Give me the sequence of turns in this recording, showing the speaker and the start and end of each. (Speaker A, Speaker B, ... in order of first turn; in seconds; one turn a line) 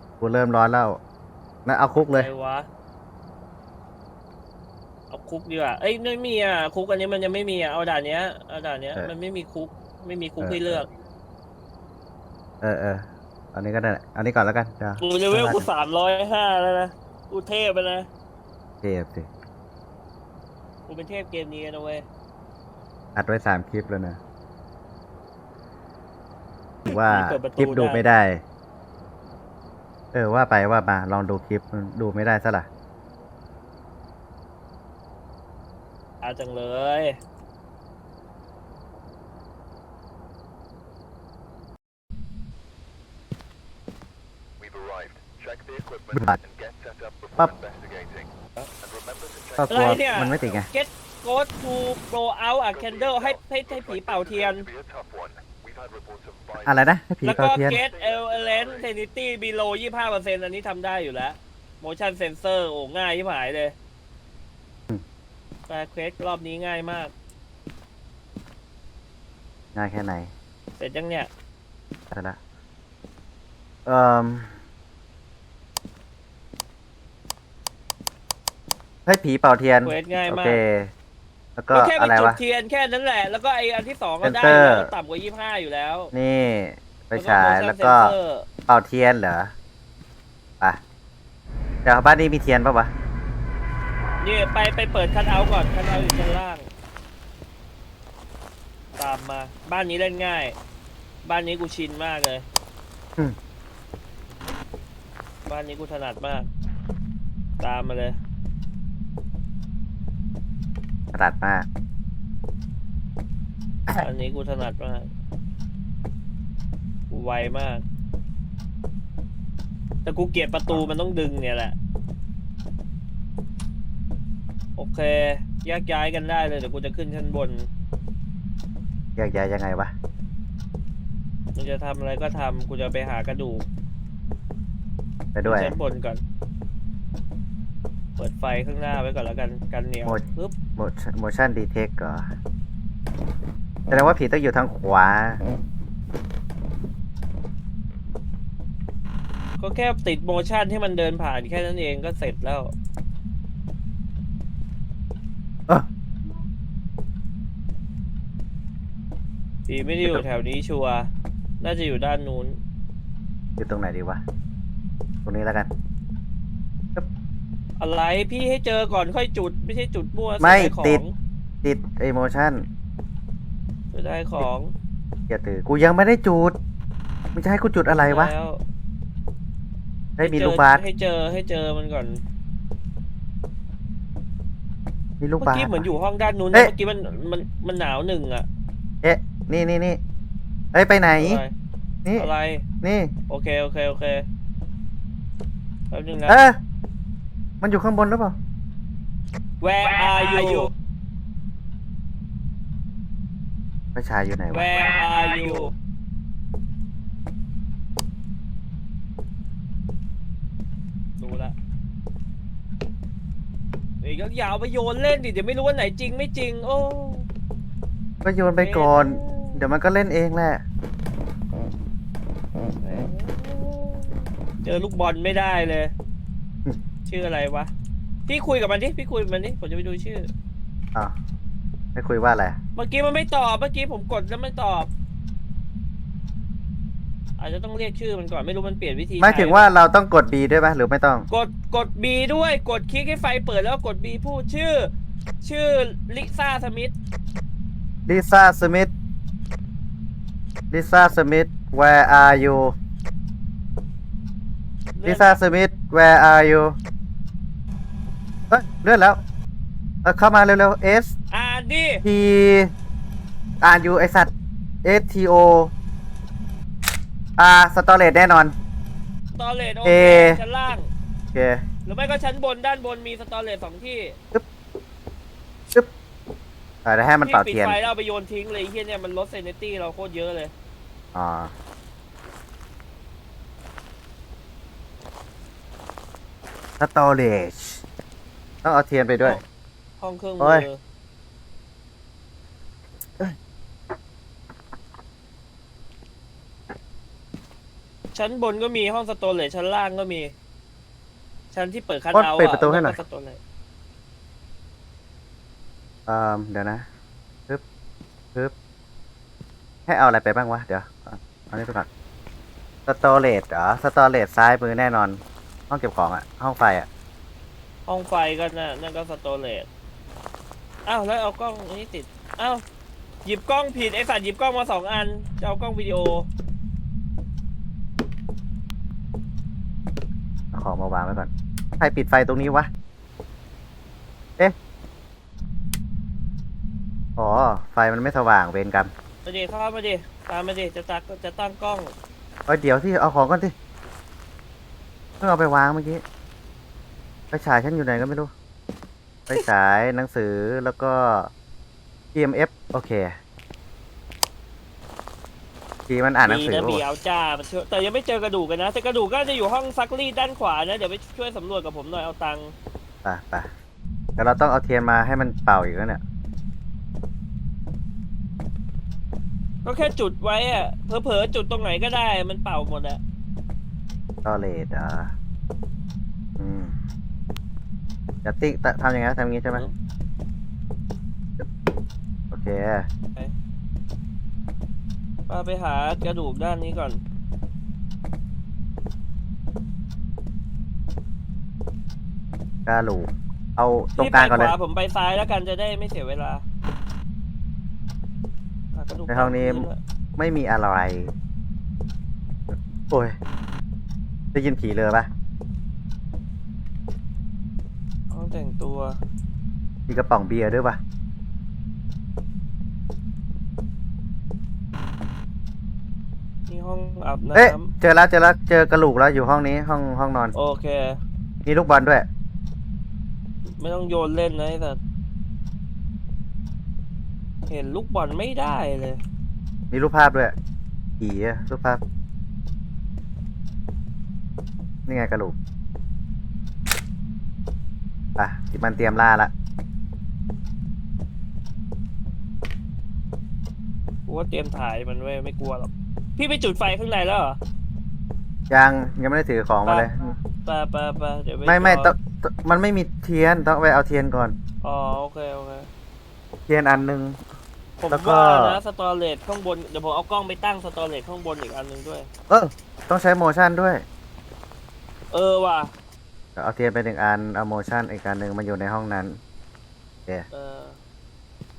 Speaker A: 0.2-1.0
Speaker A: 1.7-2.3
Speaker B: 2.1-2.7
Speaker B: 5.1-10.9
Speaker A: 10.4-10.8
Speaker A: 12.6-15.7
Speaker B: 15.0-18.1
Speaker A: 18.8-19.3
Speaker B: 20.9-22.1
Speaker A: 23.2-24.2
Speaker B: 26.9-28.0
Speaker A: 26.9-28.4
Speaker A: 30.1-32.7
Speaker B: 36.2-37.2
Speaker C: 44.6-48.3
Speaker A: 46.1-46.4
Speaker C: 48.8-49.6
Speaker A: 49.6-50.7
Speaker B: 49.7-54.7
Speaker C: 52.9-53.4
Speaker C: 54.0-56.7
Speaker A: 56.6-57.8
Speaker B: 57.2-63.8
Speaker C: 57.8-58.7
Speaker B: 65.7-67.1
Speaker A: 69.8-70.3
Speaker B: 70.8-71.3
Speaker A: 72.1-72.4
Speaker A: 73.9-74.5
Speaker A: 79.1-80.9
Speaker B: 79.8-80.6
Speaker A: 81.6-82.4
Speaker B: 81.7-86.1
Speaker A: 84.2-84.9
Speaker A: 86.1-88.2
Speaker B: 87.1-88.5
Speaker A: 88.7-89.5
Speaker A: 91.8-92.9
Speaker B: 94.2-96.7
Speaker B: 99.0-100.6
Speaker B: 101.2-102.5
Speaker B: 105.5-106.5
Speaker B: 107.6-108.2
Speaker A: 111.1-111.7
Speaker B: 114.0-115.1
Speaker B: 117.1-117.8
Speaker B: 120.0-121.8
Speaker B: 124.8-127.7
Speaker A: 129.2-129.9
Speaker B: 131.6-133.7
Speaker A: 135.3-135.8
Speaker B: 135.4-136.2
Speaker B: 138.2-140.6
Speaker A: 140.8-142.3
Speaker A: 143.9-145.4
Speaker B: 149.6-152.7
Speaker B: 159.7-161.1
Speaker B: 161.6-162.6
Speaker A: 163.6-164.2
Speaker A: 165.2-165.7
Speaker B: 167.8-171.1
Speaker A: 170.4-171.0
Speaker A: 171.6-172.6
Speaker B: 173.9-174.7
Speaker A: 175.3-176.6
Speaker A: 177.3-178.3
Speaker B: 177.9-178.6
Speaker A: 180.2-180.8
Speaker B: 180.2-182.2
Speaker A: 185.2-185.8
Speaker B: 185.4-188.4
Speaker A: 189.0-190.0
Speaker A: 190.7-191.4
Speaker B: 191.2-191.5
Speaker B: 192.2-192.6
Speaker A: 192.8-193.1
Speaker B: 193.3-194.3
Speaker B: 195.9-196.4
Speaker A: 196.3-196.6
Speaker A: 197.6-198.4
Speaker B: 199.6-200.7
Speaker A: 200.4-200.7
Speaker A: 203.9-205.7
Speaker B: 204.5-205.7
Speaker B: 211.2-211.6
Speaker B: 214.0-217.3
Speaker A: 218.2-220.6
Speaker B: 218.6-219.6
Speaker B: 222.8-225.9
Speaker B: 227.1-227.7
Speaker B: 228.3-230.3
Speaker A: 231.9-232.6
Speaker B: 232.8-234.9
Speaker B: 237.4-239.7
Speaker A: 239.2-241.3
Speaker B: 241.3-246.9
Speaker A: 248.1-248.9
Speaker A: 250.7-252.7
Speaker B: 254.9-255.4
Speaker A: 255.0-256.8
Speaker A: 258.5-259.2
Speaker A: 260.0-261.1
Speaker B: 261.3-262.0
Speaker A: 262.1-262.7
Speaker A: 263.6-264.3
Speaker A: 264.8-265.7
Speaker A: 267.4-268.5
Speaker B: 269.4-270.9
Speaker A: 269.9-270.4
Speaker A: 271.3-271.6
Speaker B: 271.9-274.2
Speaker A: 276.9-277.8
Speaker B: 277.2-280.5
Speaker A: 281.1-281.5
Speaker A: 286.8-287.8
Speaker A: 288.6-289.4
Speaker B: 290.0-290.8
Speaker A: 290.4-290.7
Speaker B: 298.1-300.3
Speaker B: 301.5-303.4
Speaker A: 302.1-303.0
Speaker A: 306.1-306.9
Speaker A: 309.9-311.9
Speaker A: 312.9-316.9
Speaker B: 317.9-319.7
Speaker B: 320.9-322.6
Speaker B: 323.2-326.3
Speaker A: 330.5-332.7
Speaker A: 337.2-338.9
Speaker B: 339.2-341.9
Speaker A: 342.5-343.5
Speaker A: 345.2-346.0
Speaker A: 347.3-348.3
Speaker A: 349.3-351.3
Speaker A: 352.1-353.2
Speaker A: 355.9-356.8
Speaker B: 356.2-362.5
Speaker A: 363.0-363.5
Speaker A: 364.2-366.0
Speaker B: 369.6-373.0
Speaker A: 374.2-375.1
Speaker A: 376.4-376.8
Speaker A: 378.2-379.7
Speaker A: 382.3-382.9
Speaker B: 385.3-387.0
Speaker A: 392.7-394.6
Speaker B: 394.0-396.4
Speaker B: 398.7-399.8
Speaker A: 399.1-401.1
Speaker A: 402.9-403.2
Speaker A: 404.3-405.1
Speaker B: 408.1-409.0
Speaker A: 409.9-410.8
Speaker B: 416.5-417.7
Speaker A: 417.3-420.4
Speaker B: 420.4-421.0
Speaker A: 421.4-422.1
Speaker B: 423.6-424.8
Speaker B: 427.5-429.0
Speaker A: 429.7-430.4
Speaker A: 431.0-431.8
Speaker A: 434.9-435.4
Speaker A: 438.2-439.3
Speaker B: 444.1-447.4
Speaker A: 448.5-450.1
Speaker B: 450.4-451.9
Speaker A: 451.5-454.4
Speaker B: 454.6-455.7
Speaker A: 456.5-457.2
Speaker B: 457.8-462.1
Speaker A: 457.9-458.6
Speaker A: 462.3-463.8
Speaker B: 465.1-465.7
Speaker A: 466.4-469.2
Speaker B: 470.3-470.8